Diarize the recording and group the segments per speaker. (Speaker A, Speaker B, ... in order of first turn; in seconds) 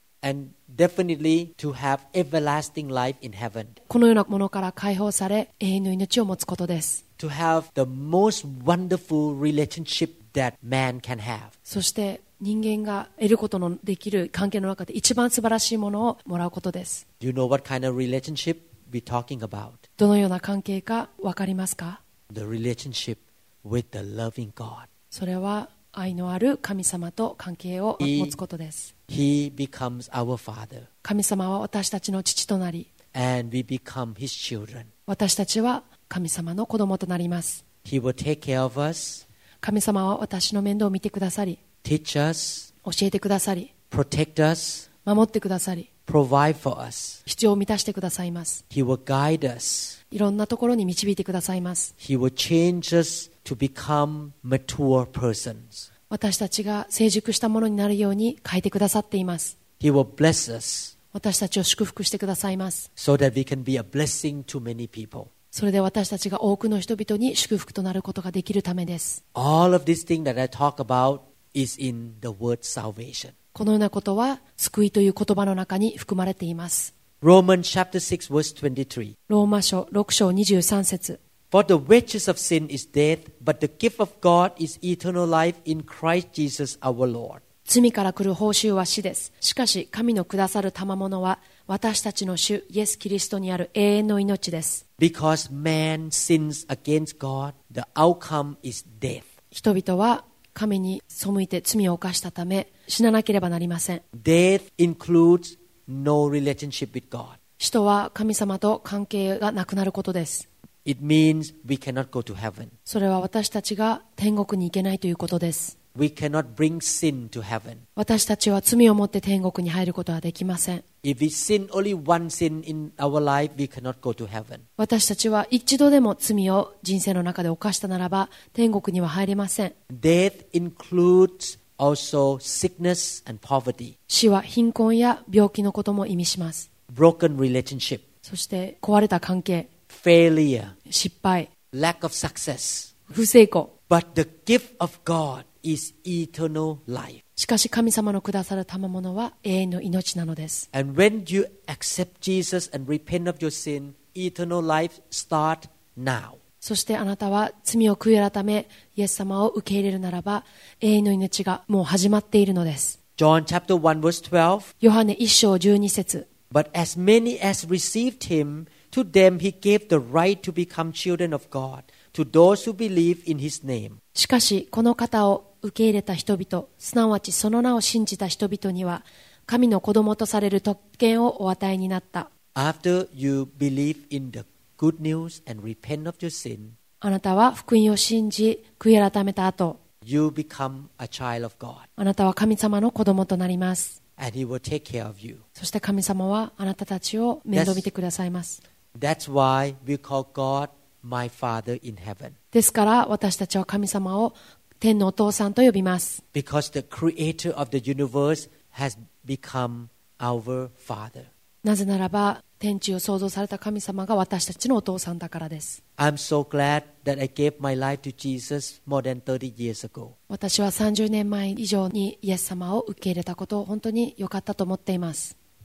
Speaker A: 0.2-3.7, 7.2-11.5, 17.2-19.8, 22.3-24.9, 28.0-28.4, 29.1-30.9, 33.1-34.9, 37.8-39.2, 41.8-42.7, 43.9-44.9, 46.1-47.2, 48.7-50.0, 52.0-55.9, 59.8-60.9, 63.0-65.3, 69.3-73.3, 77.2-79.1, 81.5-87.4, 95.0-99.3, 104.1-107.4, 110.8-112.7, 115.9-117.8, 121.0-124.6, 129.9-133.9, 136.9-138.0, 139.9-140.7, 141.7-142.9, 143.9-147.2, 150.7-156.4, 163.2-164.7, 166.5-174.0, 182.5-186.8, 190.0-191.9, 194.2-195.4, 197.5-197.9, 198.9-202.3, 206.3-211.3, 216.0-220.1
Speaker B: 3.9-7.0, 11.7-17.0, 20.0-22.0, 25.1-28.9, 31.0-32.9, 35.1-37.6, 39.6-41.6, 42.8-43.7, 45.0-45.9, 47.2-48.6, 50.1-51.9, 56.1-59.6, 61.1-62.9, 65.5-69.2, 73.5-76.9, 79.3-81.2, 87.7-94.8, 99.5-104.0, 107.6-110.5, 112.8-115.7, 118.0-120.8, 124.8-129.7, 134.1-136.7, 138.2-139.7, 140.9-141.5, 143.1-143.7, 147.4-150.7, 156.6-162.9, 164.8-166.3, 174.1-182.3, 187.0-189.8, 192.0-194.0, 195.6-198.6, 202.5-206.2, 211.6-215.8, 220.3-225.3